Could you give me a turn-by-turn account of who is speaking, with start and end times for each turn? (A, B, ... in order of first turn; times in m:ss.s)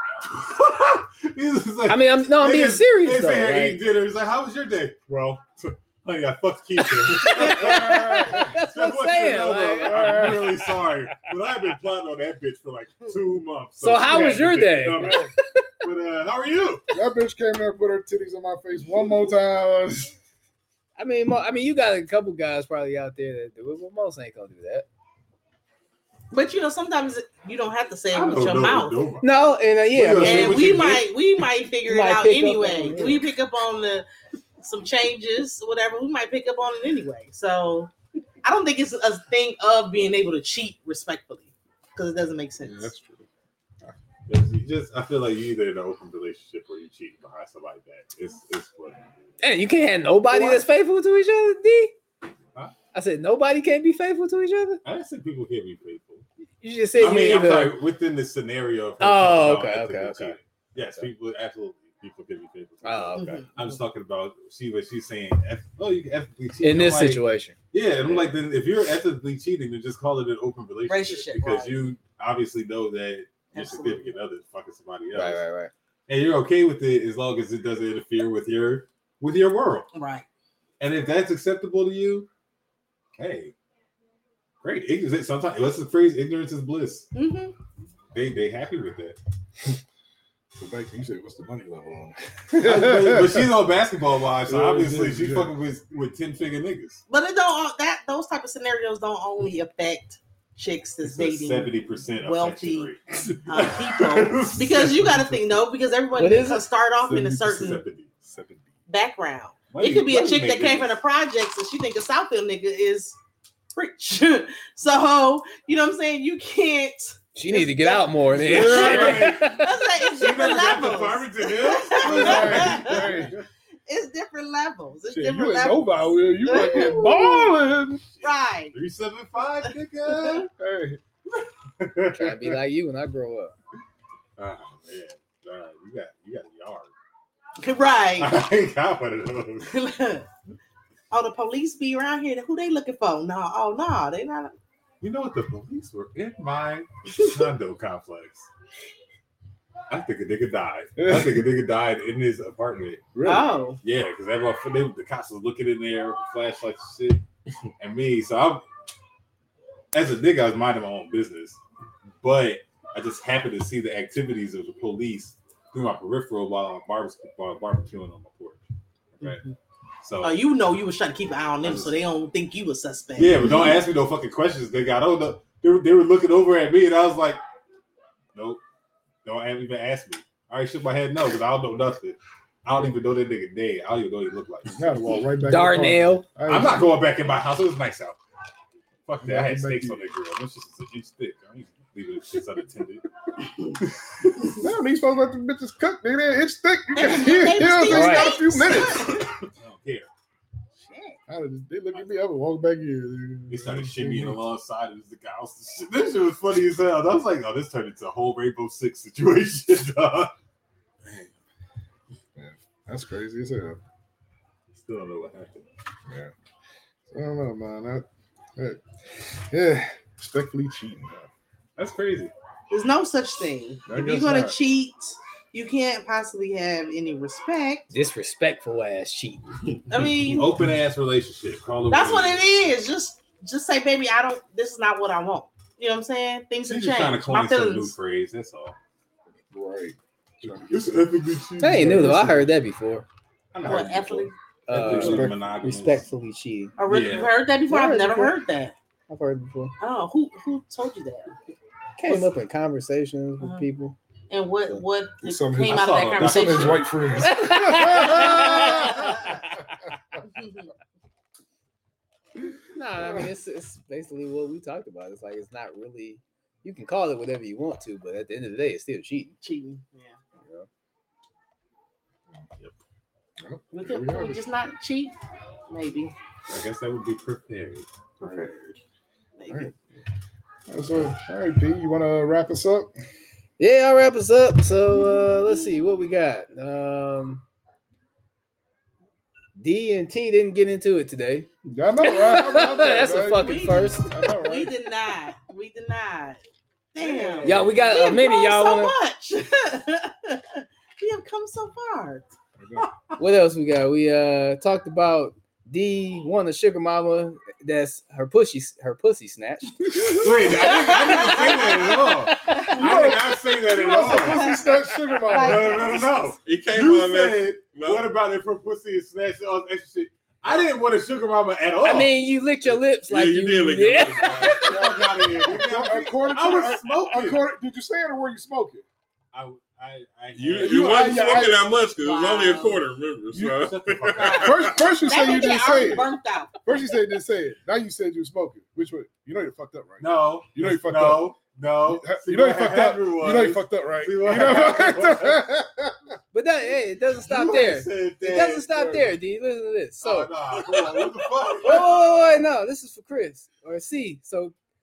0:00.3-0:16.8 A
0:01.9-0:03.8 B
0:06.8-0:10.9 B
0:07.4-0:08.6 C
0:10.0-0:10.3 C
0:13.8-0:15.7 B
0:16.9-0:20.1 C
0:21.0-0:24.9 B
0:26.3-0:29.0 D
0:28.1-0:29.3 A
0:29.2-0:30.7 B
0:29.9-0:31.1 A
0:30.2-0:34.1 D
0:31.9-0:33.2 B
0:34.6-0:37.9 D
0:38.4-0:42.9 D
0:42.6-0:43.3 E
0:44.3-0:49.3 A
0:49.4-0:51.9 B
0:52.9-0:54.8 B
0:54.8-0:56.2 A
0:56.6-0:57.8 B
0:57.0-1:15.4 A
0:59.0-1:01.1 B
1:02.8-1:03.3 B
1:03.2-1:03.5 D
1:06.6-1:07.6 B
1:10.9-1:11.9 D
1:13.5-1:14.1 D
1:15.1-1:15.7 B
1:16.1-1:19.9 A
1:19.9-1:20.3 D
1:20.8-1:22.3 A
1:23.2-1:23.5 A
1:24.6-1:27.1 A
1:27.1-1:27.5 D
1:28.1-1:29.2 A
1:30.6-1:33.5 C
1:32.6-1:37.0 A
1:34.4-1:35.5 C
1:37.1-1:41.7 D
1:41.0-1:45.6 A
1:42.2-1:42.9 D
1:43.5-1:47.8 D
1:46.2-1:46.6 B
1:47.0-1:48.1 A
1:47.1-1:47.7 C
1:48.3-1:48.7 C
1:48.9-1:53.2 D
1:49.7-1:51.0 A
1:53.8-2:03.3 D
1:57.4-1:59.7 B
1:58.4-2:03.4 A
2:02.0-2:03.4 C
2:03.9-2:07.5 D
2:05.1-2:08.0 C
2:06.5-2:07.0 A
2:08.2-2:10.5 A
2:08.2-2:08.7 D
2:10.6-2:11.0 C
2:11.8-2:12.6 A
2:12.1-2:13.5 B
2:14.4-2:16.9 A
2:17.6-2:18.4 D
2:18.2-2:19.7 A
2:19.7-2:20.3 D
2:21.1-2:24.5 D
2:25.0-2:28.5 A
2:29.9-2:33.1 A
2:31.0-2:31.4 C
2:33.2-2:33.5 C
2:33.2-2:33.8 D
2:33.8-2:37.2 A
2:37.8-2:38.6 A
2:39.9-2:41.6 A
2:42.2-2:48.6 A
2:49.2-2:49.4 A
2:49.2-2:49.5 D
2:50.0-2:50.4 A
2:50.2-2:53.7 D
2:51.6-2:51.9 A
2:53.2-2:57.4 A
2:58.4-2:58.6 A
2:59.2-3:04.8 A
3:04.7-3:07.0 C
3:05.4-3:06.3 B
3:06.5-3:08.2 A
3:09.1-3:13.1 A
3:09.2-3:10.1 C
3:13.6-3:14.6 A
3:14.6-3:19.3 C
3:16.9-3:19.3 D
3:17.8-3:18.4 B
3:19.6-3:20.1 A
3:20.8-3:21.2 D
3:21.3-3:24.4 C
3:23.5-3:30.3 A
3:31.0-3:31.3 E
3:32.4-3:33.8 C
3:34.7-3:35.7 A
3:36.1-3:36.3 C
3:37.1-3:41.3 C
3:41.8-3:42.3 A
3:42.7-3:47.9 D
3:43.9-3:44.6 C
3:47.9-3:49.5 B
3:49.9-3:50.5 D
3:50.1-3:52.5 A
3:51.9-3:57.9 D
3:56.6-3:58.8 A
3:59.5-4:02.5 C
4:00.7-4:02.0 E
4:01.6-4:03.1 B
4:03.5-4:06.0 A
4:03.6-4:04.3 D
4:04.7-4:06.8 B
4:04.7-4:05.4 C
4:06.8-4:08.7 D
4:06.9-4:07.4 A
4:07.7-4:08.4 B
4:09.1-4:09.8 B
4:09.8-4:11.4 D
4:12.0-4:14.0 B
4:13.4-4:13.7 D
4:14.3-4:17.0 D
4:15.2-4:19.3 C
4:15.6-4:17.4 A
4:17.2-4:19.3 B
4:18.4-4:19.1 D
4:20.3-4:20.7 D
4:22.8-4:29.4 B
4:29.4-4:30.2 D
4:30.4-4:30.7 B
4:33.4-4:34.5 C
4:33.7-4:35.2 D
4:35.7-4:36.1 D
4:36.5-4:37.9 A
4:38.2-4:38.5 C
4:38.2-4:38.6 D
4:39.4-4:39.8 D
4:40.7-4:42.9 C
4:43.6-4:47.4 B
4:49.6-4:51.5 B
4:51.6-4:54.7 C
4:52.0-4:54.1 B
4:52.6-4:56.4 D
4:56.9-5:02.3 D
4:57.0-4:57.5 C
4:57.4-4:59.0 B
5:02.6-5:02.9 C
5:03.2-5:10.7 B
5:10.0-5:14.6 A
5:10.5-5:11.9 D
5:12.5-5:13.2 D
5:12.7-5:16.1 C
5:14.1-5:14.6 D
5:15.3-5:16.0 D
5:15.3-5:22.1 A
5:16.4-5:18.1 E
5:21.8-5:24.7 B
5:23.0-5:24.9 E
5:24.6-5:27.4 A
5:24.6-5:28.8 C
5:29.3-5:31.3 A
5:30.4-5:34.8 E
5:30.6-5:31.6 C
5:31.9-5:32.8 D
5:33.3-5:34.6 A
5:34.1-5:34.5 D
5:34.3-5:36.1 C
5:35.0-5:36.6 D
5:36.6-5:46.0 C
5:40.0-5:45.4 A
5:46.3-5:50.3 B
5:47.2-5:48.7 A
5:48.7-5:49.2 C
5:50.0-5:51.9 A
5:51.6-5:54.5 B